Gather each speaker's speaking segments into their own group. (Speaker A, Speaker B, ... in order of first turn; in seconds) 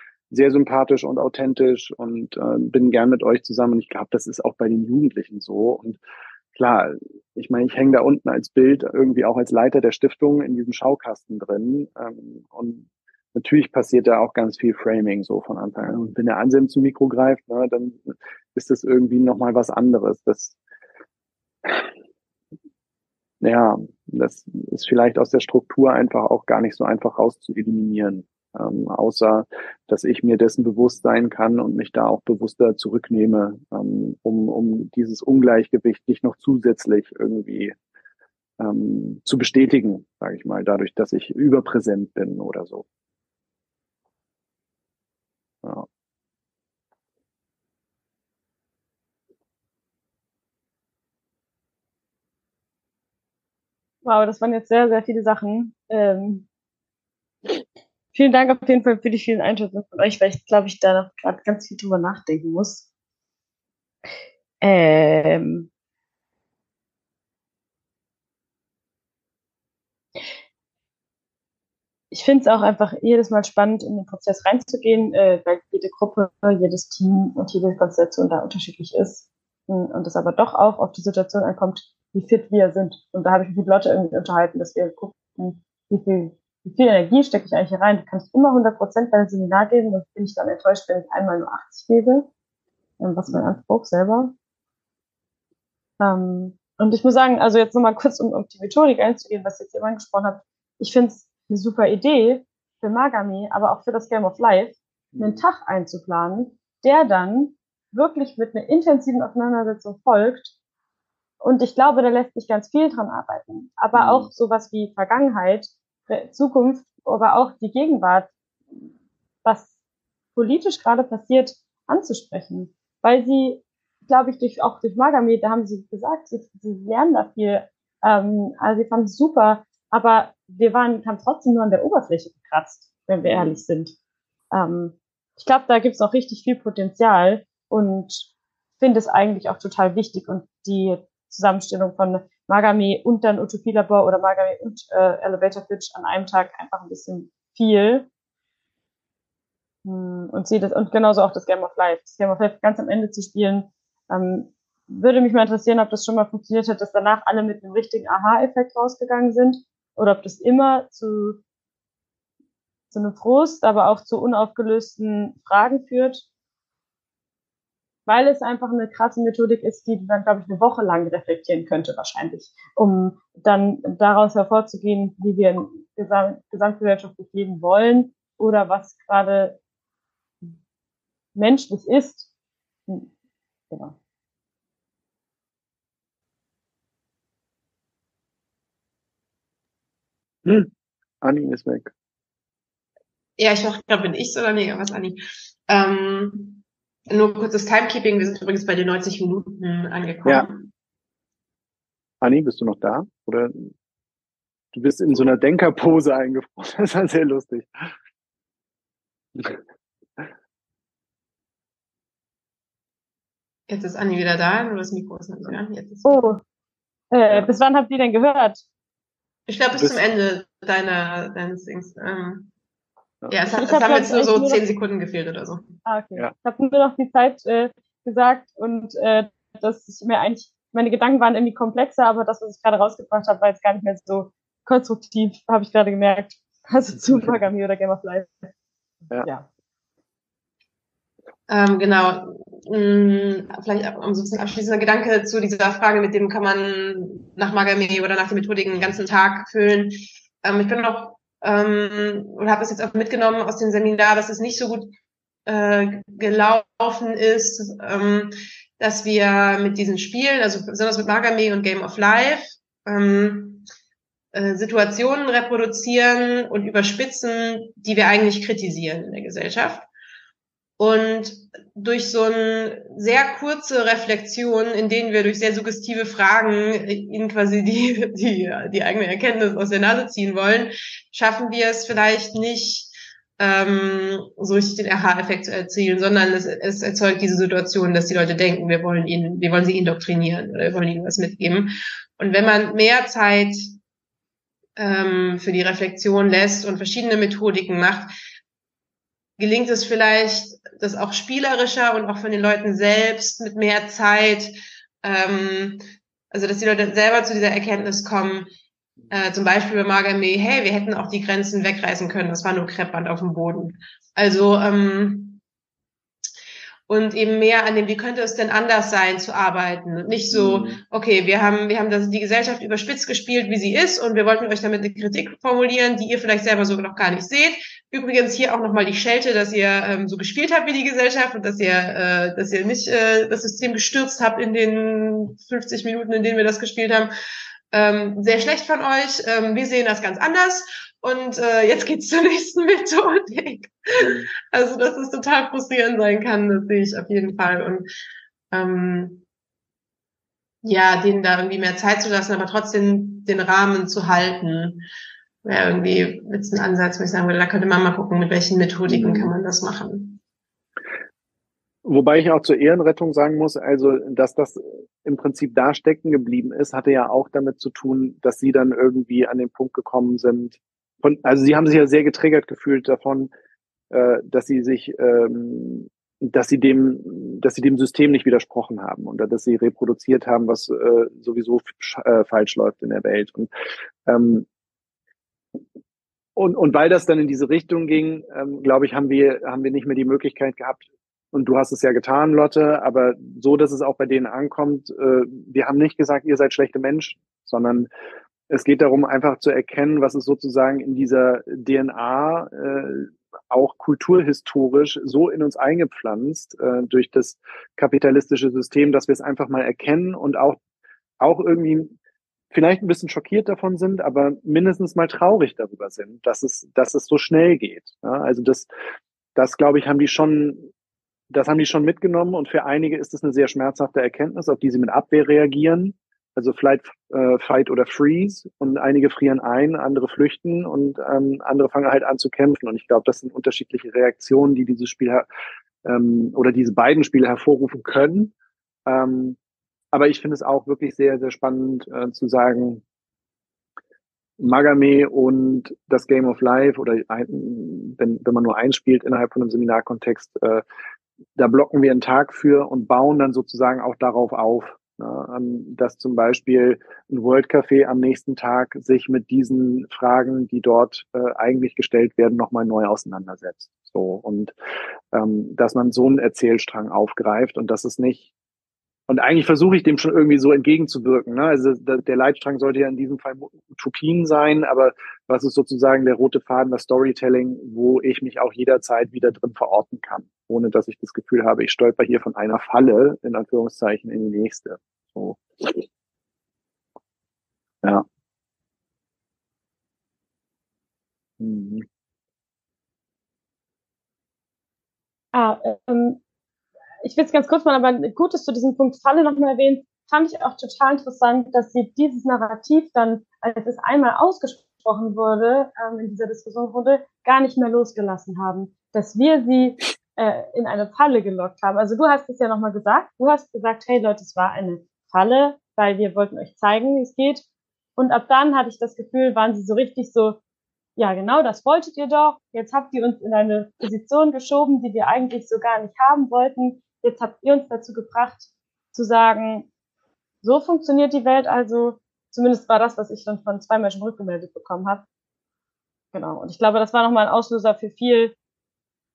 Speaker A: 0.3-6.0, 6.5-20.6, 21.6-21.9, 23.4-37.8, 38.6-42.8, 105.1-105.4, 113.9-114.3, 133.2-133.6, 190.4-191.9, 202.2-203.7, 204.7-207.9, 219.7-220.0, 320.3-320.8, 344.0-344.3, 358.9-359.3, 361.8-373.3, 373.9-383.5, 384.1-384.5, 386.4-397.9, 398.5-410.6, 411.2-411.9, 412.5-418.7, 419.4-420.7, 421.3-435.2, 435.8-438.3, 438.9-439.4, 439.9-442.8, 444.4-450.6, 451.4-464.5, 465.1-468.3, 469.1-485.9, 491.4-491.9
Speaker B: 54.0-56.5, 58.1-62.9, 64.6-65.7, 72.1-92.3, 93.0-94.3, 96.0-110.5, 111.4-118.3, 119.4-119.7, 120.3-133.9, 134.5-148.1, 149.8-161.4, 162.9-166.2, 168.1-179.6, 181.3-182.3, 183.7-183.9, 216.0-216.4, 217.1-218.6, 223.5-224.6, 225.8-238.5, 495.3-496.2, 497.0-517.4, 518.0-520.4, 521.0-529.7, 530.4-535.0, 536.1-538.3
Speaker C: 193.4-200.7, 213.7-216.3, 219.5-222.5, 223.3-225.7, 241.5-254.9, 255.4-263.6, 264.3-269.9, 270.8-293.8, 294.8-298.1, 299.4-308.5, 309.1-315.4, 316.9-337.1, 337.7-347.9, 348.5-349.2, 350.6-354.8, 355.4-360.2